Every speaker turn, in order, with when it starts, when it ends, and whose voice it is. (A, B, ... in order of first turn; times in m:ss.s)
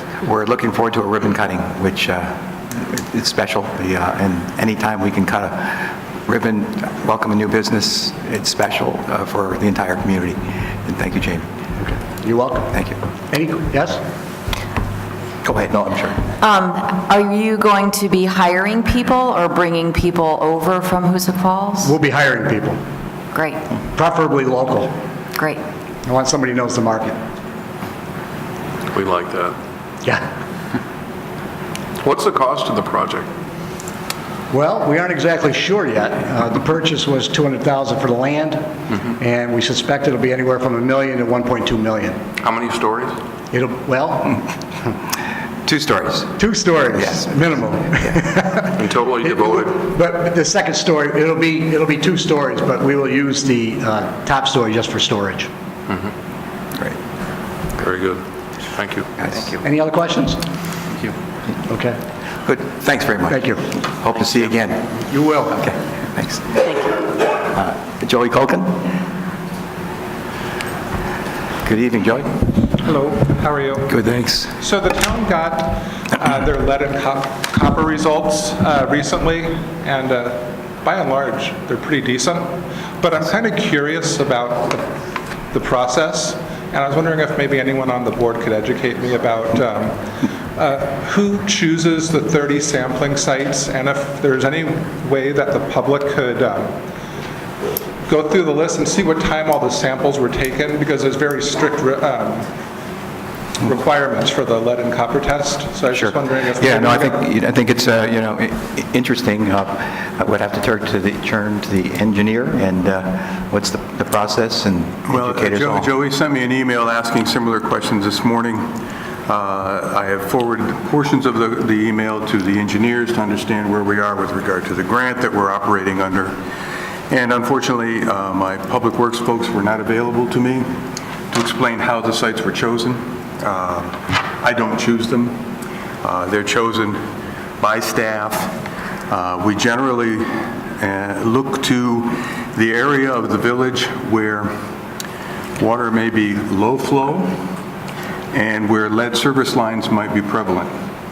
0:00.2-0:11.5 A
0:11.8-0:12.8 B
0:13.3-0:14.0 B
0:15.4-0:16.3 A
0:16.4-0:21.9 C
0:21.8-0:22.8 B
0:23.3-0:23.6 C
0:23.9-0:24.9 B
0:25.4-0:25.6 C
0:26.1-0:27.2 B
0:28.9-0:29.6 D
0:32.0-0:33.3 D
0:34.5-0:42.2 B
0:42.4-0:43.2 D
0:43.5-0:44.5 B
0:45.7-0:46.4 A
0:46.4-0:48.8 B
0:47.0-0:47.3 A
0:48.8-0:49.8 D
0:49.4-0:55.5 B
0:57.8-0:59.1 D
0:59.6-1:00.4 B
1:01.7-1:02.0 B
1:02.4-1:05.0 A
1:03.3-1:03.7 B
1:05.0-1:05.6 B
1:05.5-1:08.9 A
1:11.6-1:12.6 A
1:12.8-1:14.0 E
1:13.9-1:14.5 A
1:14.6-1:24.9 E
1:25.5-1:30.0 E
1:30.6-1:36.7 E
1:38.1-1:42.5 E
1:43.6-1:47.2 E
1:46.0-1:55.9 A
1:55.1-1:58.7 F
1:59.3-2:06.4 F
2:07.1-2:10.7 F
2:11.3-2:15.4 F
2:16.0-2:17.0 F
2:17.6-2:18.6 F
2:19.1-2:20.2 F
2:20.8-2:24.5 F
2:25.6-2:27.4 F
2:28.3-2:30.7 F